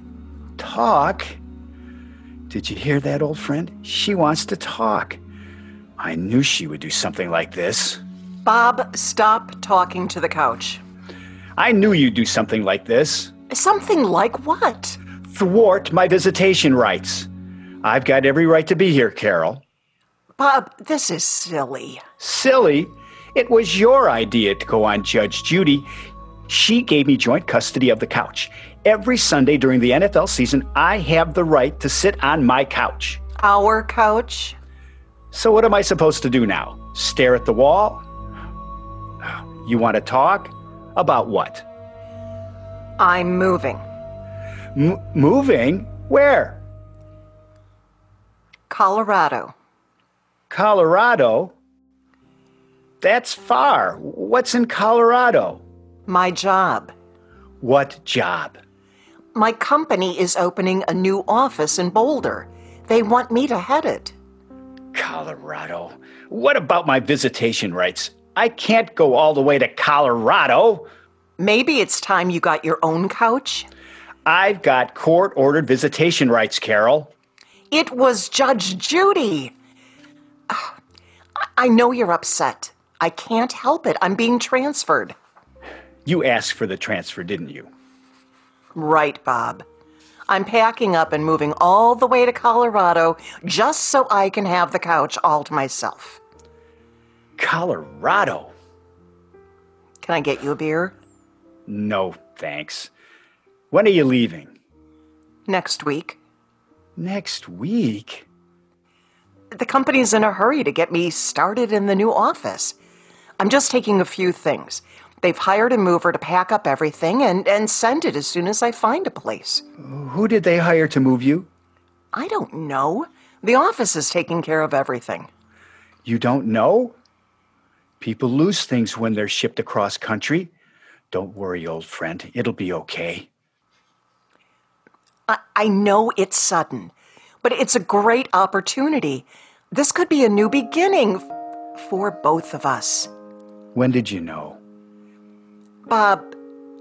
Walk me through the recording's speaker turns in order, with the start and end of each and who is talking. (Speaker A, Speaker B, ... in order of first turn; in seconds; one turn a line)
Speaker A: 0.6-1.4
Speaker A: 2.5-5.2
Speaker A: 6.0-8.0
Speaker B: 8.4-10.8
Speaker A: 11.6-13.3
Speaker B: 13.5-15.0
Speaker A: 15.3-17.3
Speaker A: 17.8-19.6
Speaker B: 20.4-22.0
Speaker A: 22.2-25.9
Speaker A: 26.5-33.2
Speaker B: 33.4-34.6
Speaker A: 35.3-38.0
Speaker A: 39.2-41.6
Speaker B: 43.0-43.8
Speaker A: 44.7-46.6
Speaker B: 48.7-49.5
Speaker A: 50.5-51.5
Speaker A: 53.0-55.6
Speaker B: 56.1-56.9
Speaker A: 57.6-58.5
Speaker B: 59.3-64.1
Speaker A: 64.9-70.8
Speaker B: 71.4-73.7
Speaker A: 74.2-77.1
Speaker B: 77.7-79.5
Speaker B: 80.5-80.7
Speaker B: 81.6-85.1
Speaker A: 86.0-87.7
Speaker B: 88.7-89.6
Speaker B: 90.3-96.2
Speaker A: 97.4-98.5
Speaker B: 100.0-100.9
Speaker A: 101.7-102.9
Speaker A: 103.7-104.5
Speaker B: 105.5-106.2
Speaker A: 107.0-108.3
Speaker B: 109.5-112.8
Speaker B: 113.4-119.6
Speaker A: 119.8-121.5
Speaker B: 122.1-125.3
Speaker A: 126.0-126.9
Speaker A: 128.0-130.5
Speaker A: 131.1-133.3
Speaker B: 135.3-143.1
Speaker A: 143.7-144.6
Speaker B: 145.9-146.3